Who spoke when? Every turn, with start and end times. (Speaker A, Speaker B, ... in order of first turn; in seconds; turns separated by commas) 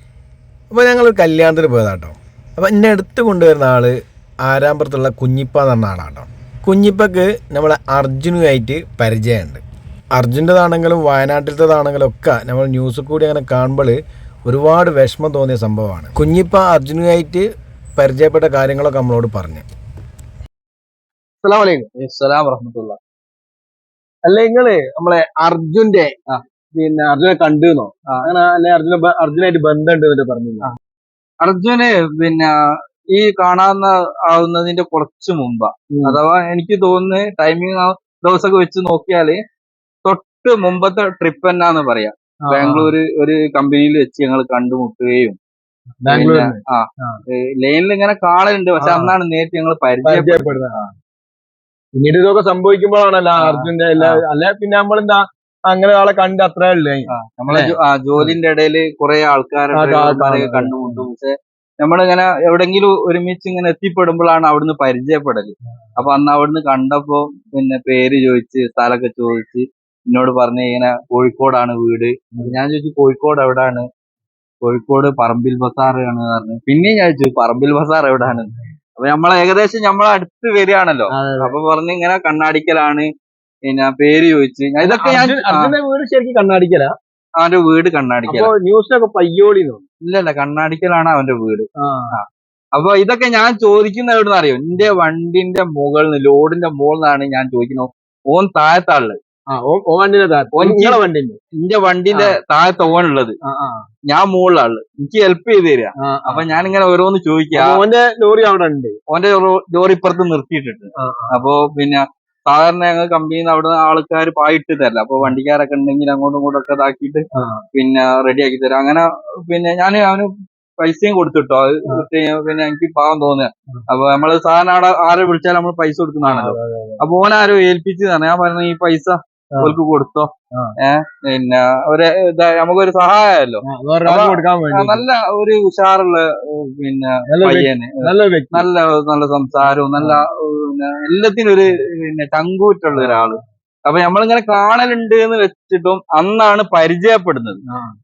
Speaker A: 0.7-9.6, Speaker A: 10.2-19.6, Speaker B: 21.4-21.9, Speaker C: 22.0-23.0, Speaker B: 24.2-26.1, Speaker B: 26.7-30.7, Speaker C: 31.4-32.5, Speaker C: 33.1-39.4, Speaker B: 35.9-36.2, Speaker C: 40.0-45.4, Speaker B: 42.5-42.9, Speaker B: 46.0-47.2, Speaker C: 46.1-50.9, Speaker B: 48.8-49.2, Speaker B: 50.0-50.9, Speaker B: 52.0-58.4, Speaker C: 53.4-54.2, Speaker C: 57.1-73.8, Speaker B: 59.7-61.1, Speaker C: 74.6-83.1, Speaker B: 81.1-81.5, Speaker C: 83.7-85.7, Speaker B: 84.8-86.9, Speaker C: 87.4-88.5, Speaker B: 88.2-89.8, Speaker C: 90.0-99.2, Speaker B: 91.8-92.1, Speaker B: 99.5-101.4, Speaker C: 100.5-101.0, Speaker C: 101.6-103.3, Speaker B: 102.1-102.4, Speaker B: 103.4-103.8, Speaker C: 104.1-107.8, Speaker B: 106.0-106.5, Speaker B: 107.5-109.0, Speaker C: 109.1-120.3, Speaker B: 111.0-111.4, Speaker B: 117.3-117.6, Speaker C: 120.8-147.6, Speaker B: 126.2-127.0, Speaker B: 133.6-135.0, Speaker B: 137.3-138.7, Speaker B: 139.9-140.2, Speaker B: 142.9-143.4, Speaker B: 147.7-147.9